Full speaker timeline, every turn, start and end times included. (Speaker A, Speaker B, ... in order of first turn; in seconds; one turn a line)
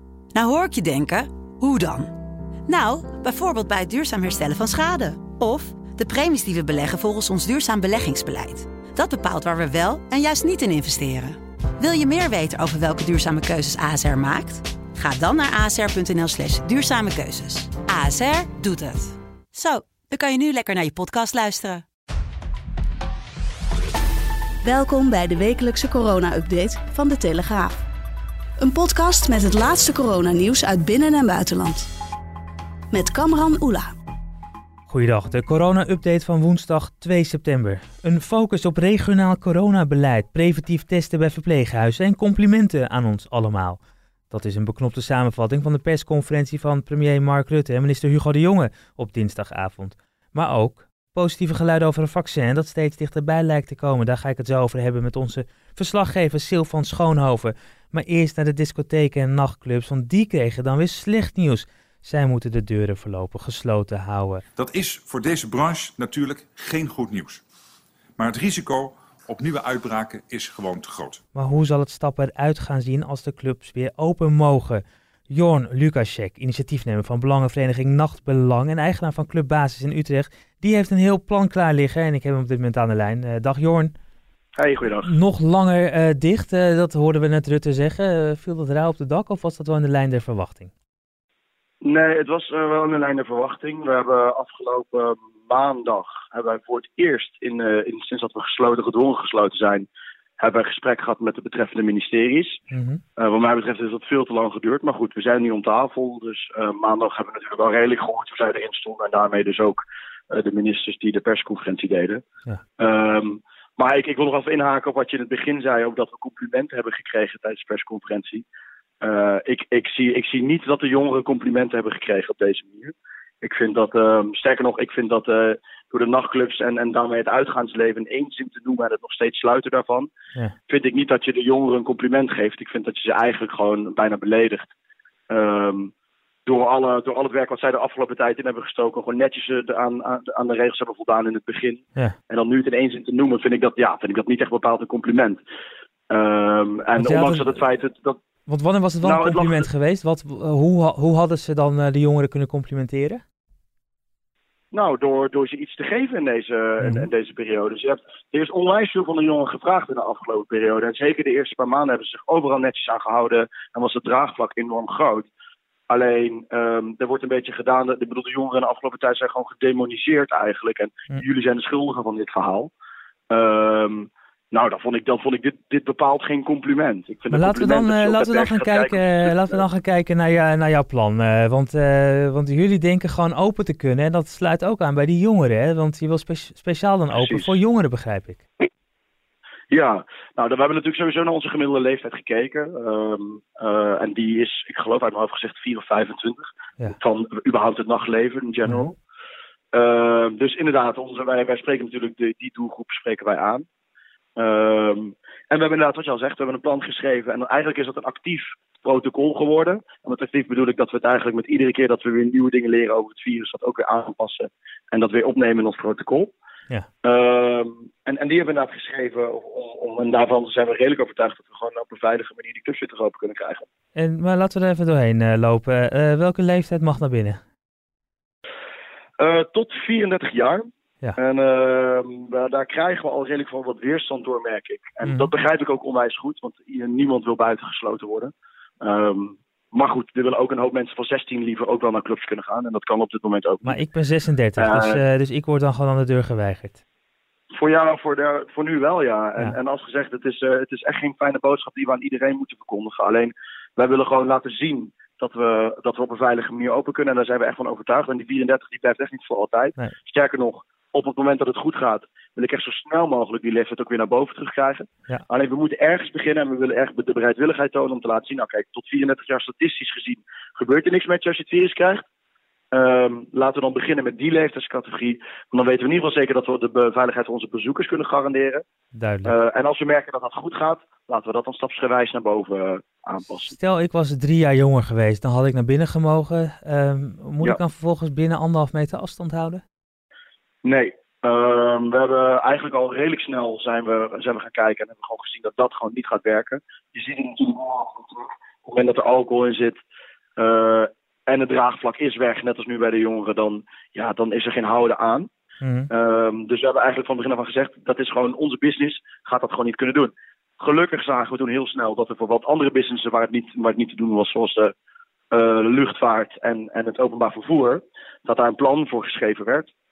Speaker A: 0.3-2.1
Speaker A: 2.6-21.8
Speaker B: 24.6-27.8
Speaker B: 28.6-31.9
Speaker B: 32.9-33.9
Speaker C: 34.9-43.8
Speaker C: 44.3-64.4
Speaker D: 64.5-67.4
Speaker D: 68.2-71.2
Speaker C: 71.3-83.9
Speaker E: 84.5-85.1
Speaker C: 85.0-90.7
Speaker E: 91.8-99.9
Speaker E: 100.4-102.6
Speaker C: 102.7-103.0
Speaker E: 103.2-112.2
Speaker E: 112.8-118.4
Speaker E: 119.0-130.1
Speaker E: 130.7-134.7
Speaker E: 135.3-135.9
Speaker E: 136.4-145.4
Speaker E: 146.1-148.2
Speaker C: 146.9-147.6
Speaker C: 148.5-153.2
Speaker E: 149.0-149.7
Speaker E: 154.7-165.3
Speaker C: 156.8-157.1
Speaker E: 165.9-172.7
Speaker E: 173.3-179.6
Speaker C: 177.3-188.4
Speaker E: 187.1-187.5
Speaker E: 189.7-199.0
Speaker E: 199.7-203.6
Speaker E: 204.4-216.3
Speaker E: 217.0-223.7
Speaker C: 223.9-227.4
Speaker E: 229.2-243.8
Speaker C: 235.0-235.3
Speaker C: 243.6-246.8
Speaker E: 244.6-245.0
Speaker E: 247.5-272.0
Speaker E: 272.7-278.6
Speaker C: 278.9-279.3
Speaker E: 279.2-283.5
Speaker C: 283.5-289.6
Speaker E: 290.6-299.8
Speaker E: 300.4-305.3
Speaker C: 305.6-305.9
Speaker E: 305.9-314.7
Speaker E: 315.3-319.7